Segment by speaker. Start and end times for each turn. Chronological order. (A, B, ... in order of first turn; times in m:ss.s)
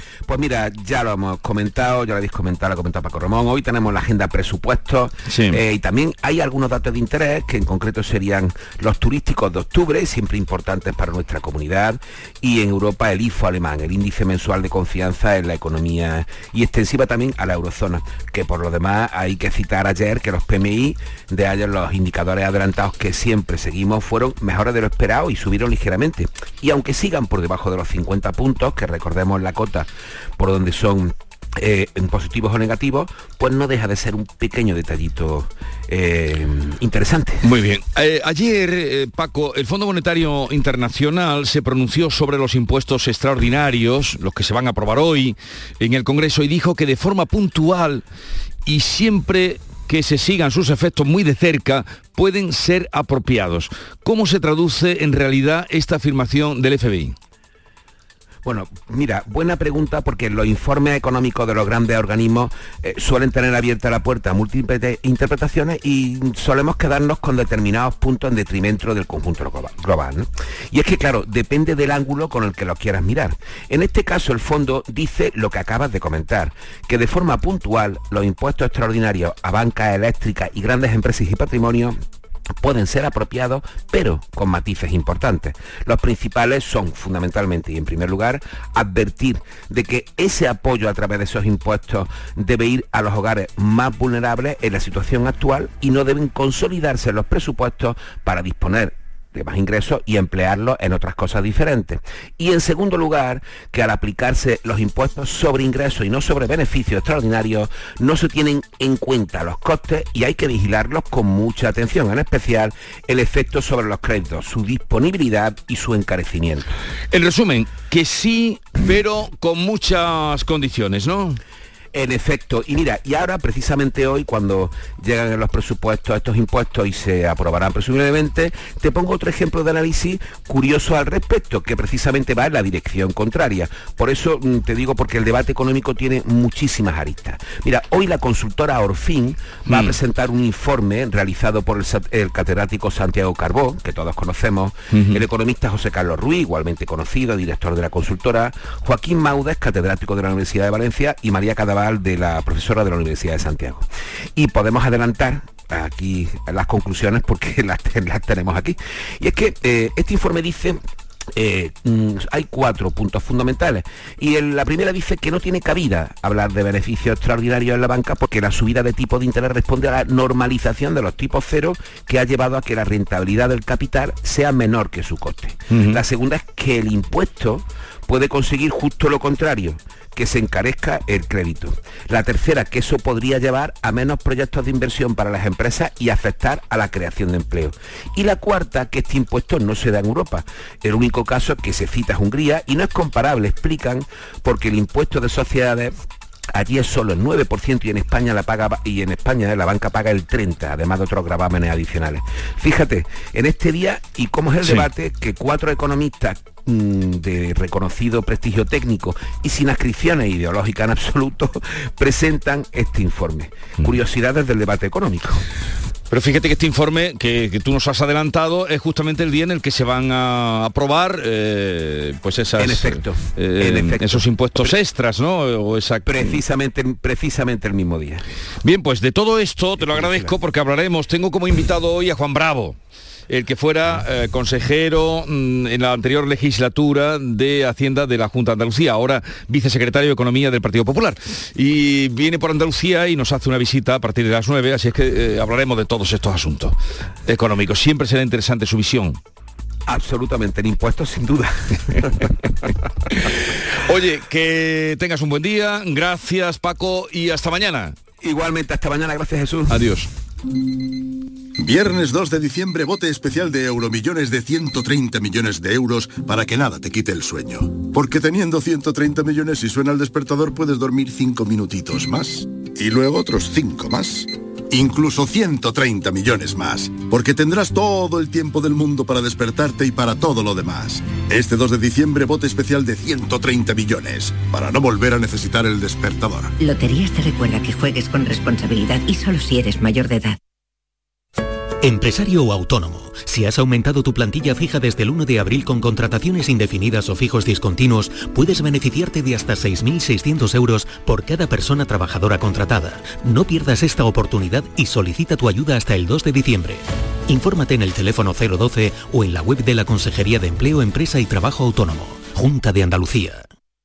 0:00.3-0:37.4 A
0:05.3-0:05.6 B
0:37.4-0:48.0 B
0:48.6-0:57.2 B
0:58.4-1:22.0 A
1:22.6-1:56.7 A
1:57.1-2:01.4 B
2:01.9-2:40.8 A
2:19.7-2:19.9 B
2:24.9-2:25.2 B
2:41.4-3:15.9 A
2:55.7-2:56.0 B
3:16.6-3:35.4 A
3:24.6-3:24.9 B
3:36.1-3:46.4 B
3:42.6-3:44.8 A
3:46.0-3:48.2 A
3:48.6-3:52.8 B
3:49.9-3:50.3 A
3:53.3-4:09.2 B
4:09.9-4:12.0 A
4:13.9-4:18.0 B
4:18.2-4:19.7 A
4:19.7-4:20.1 B
4:21.6-4:46.5 C
4:46.6-4:50.4 D
4:51.8-5:13.5 E